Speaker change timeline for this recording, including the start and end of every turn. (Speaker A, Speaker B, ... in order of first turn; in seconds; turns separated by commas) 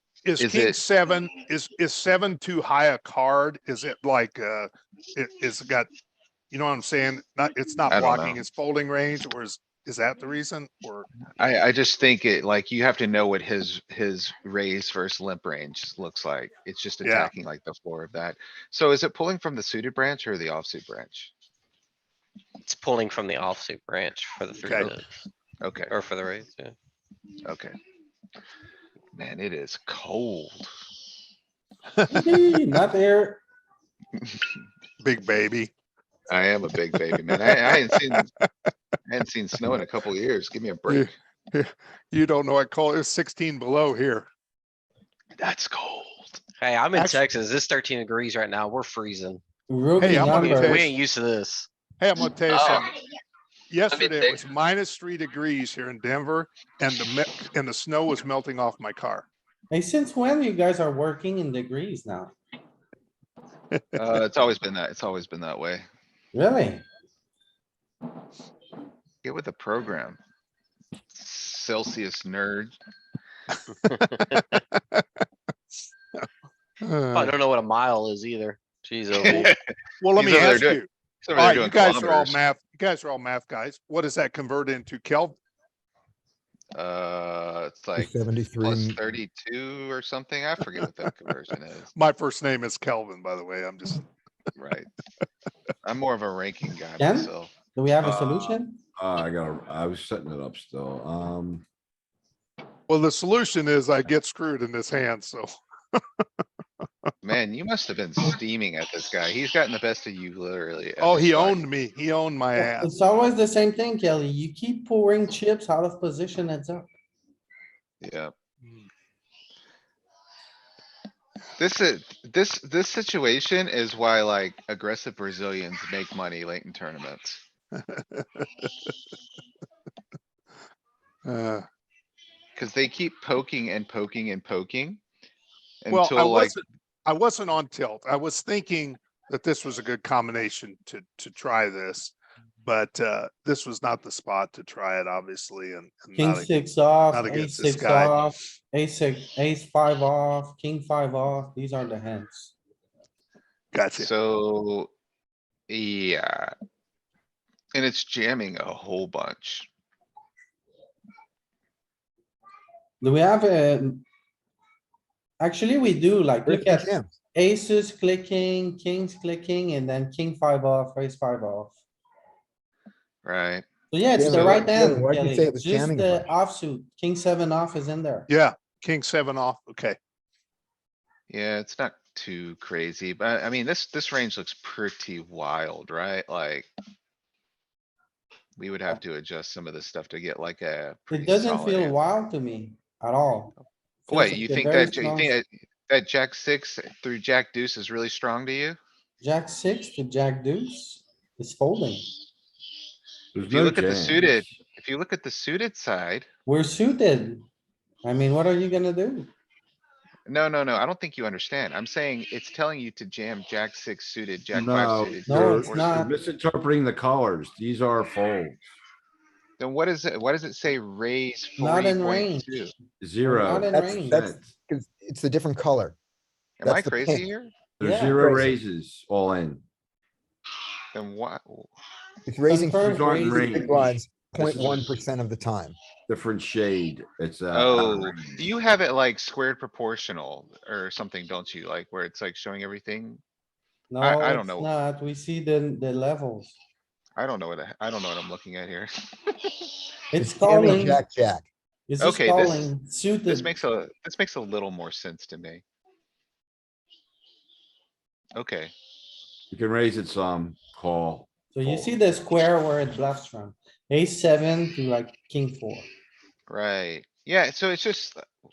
Speaker A: 0.2-5.9, Speaker B: 0.4-0.8, Speaker A: 6.5-11.1, Speaker B: 7.9-8.4, Speaker B: 11.4-21.3, Speaker A: 17.0-17.3, Speaker C: 22.6-25.1, Speaker A: 24.6-24.9, Speaker B: 25.6-25.9, Speaker C: 25.9-26.7, Speaker B: 27.4-27.8, Speaker B: 29.1-30.7, Speaker A: 32.0-32.4, Speaker D: 32.1-33.4, Speaker A: 35.0-35.7, Speaker B: 36.3-38.3, Speaker A: 37.1-38.5, Speaker B: 39.1-41.1, Speaker A: 40.9-44.3, Speaker B: 45.4-46.4, Speaker C: 46.6-49.4, Speaker A: 46.9-47.2, Speaker D: 49.7-50.8, Speaker A: 50.0-50.9, Speaker C: 50.4-51.7, Speaker A: 52.0-52.9, Speaker A: 53.7-59.3, Speaker C: 53.9-54.3, Speaker D: 59.7-62.3, Speaker B: 64.0-65.8, Speaker D: 66.3-66.8, Speaker B: 69.2-70.2, Speaker B: 71.1-72.8, Speaker A: 73.9-75.0, Speaker A: 76.8-77.4, Speaker C: 77.1-79.5, Speaker B: 79.2-82.4, Speaker A: 80.0-85.4, Speaker B: 86.7-91.9, Speaker E: 88.0-89.0, Speaker A: 91.9-94.0, Speaker B: 94.6-94.9, Speaker B: 95.8-98.6, Speaker D: 97.0-98.8, Speaker F: 99.0-101.6, Speaker A: 102.9-106.2, Speaker B: 107.2-111.6, Speaker A: 111.0-112.9, Speaker D: 112.6-116.9, Speaker B: 118.0-118.3, Speaker B: 121.6-127.4, Speaker A: 127.8-128.5, Speaker A: 131.2-131.6, Speaker B: 132.6-135.0, Speaker B: 135.8-136.6, Speaker A: 135.9-146.5, Speaker D: 146.2-152.5, Speaker A: 147.1-148.4, Speaker A: 153.7-154.1, Speaker B: 153.9-154.9, Speaker B: 155.7-156.5, Speaker B: 157.7-159.7, Speaker D: 163.0-164.0, Speaker D: 165.4-171.8, Speaker E: 166.4-167.1, Speaker B: 173.2-173.6, Speaker D: 173.9-178.3, Speaker E: 174.1-176.2, Speaker B: 174.2-174.6, Speaker A: 178.3-180.0, Speaker B: 181.3-186.7, Speaker B: 188.6-192.0, Speaker D: 191.1-193.5, Speaker D: 194.1-195.4, Speaker B: 194.1-198.8, Speaker D: 199.2-202.1, Speaker F: 203.3-204.5, Speaker B: 203.5-206.3, Speaker D: 206.4-207.5, Speaker D: 208.0-209.3, Speaker B: 210.3-216.0, Speaker F: 214.5-218.7, Speaker D: 215.2-216.2, Speaker B: 219.6-222.7, Speaker D: 221.6-222.6, Speaker F: 223.0-224.5, Speaker D: 223.2-224.3, Speaker E: 223.7-225.9, Speaker B: 226.6-227.5, Speaker E: 226.6-227.3, Speaker F: 227.8-229.6, Speaker D: 227.8-228.3, Speaker E: 228.2-228.6, Speaker B: 230.9-231.7, Speaker E: 232.2-235.8, Speaker D: 232.5-233.9, Speaker F: 232.8-235.0, Speaker F: 236.1-238.4, Speaker B: 237.5-243.2, Speaker D: 243.9-246.6, Speaker B: 244.0-244.7, Speaker B: 247.2-249.7, Speaker D: 250.1-251.0, Speaker E: 250.2-251.4, Speaker D: 251.9-253.5, Speaker B: 252.0-252.7, Speaker B: 253.3-255.6, Speaker B: 258.3-258.7, Speaker F: 259.5-261.9, Speaker D: 261.5-265.9, Speaker B: 266.5-268.2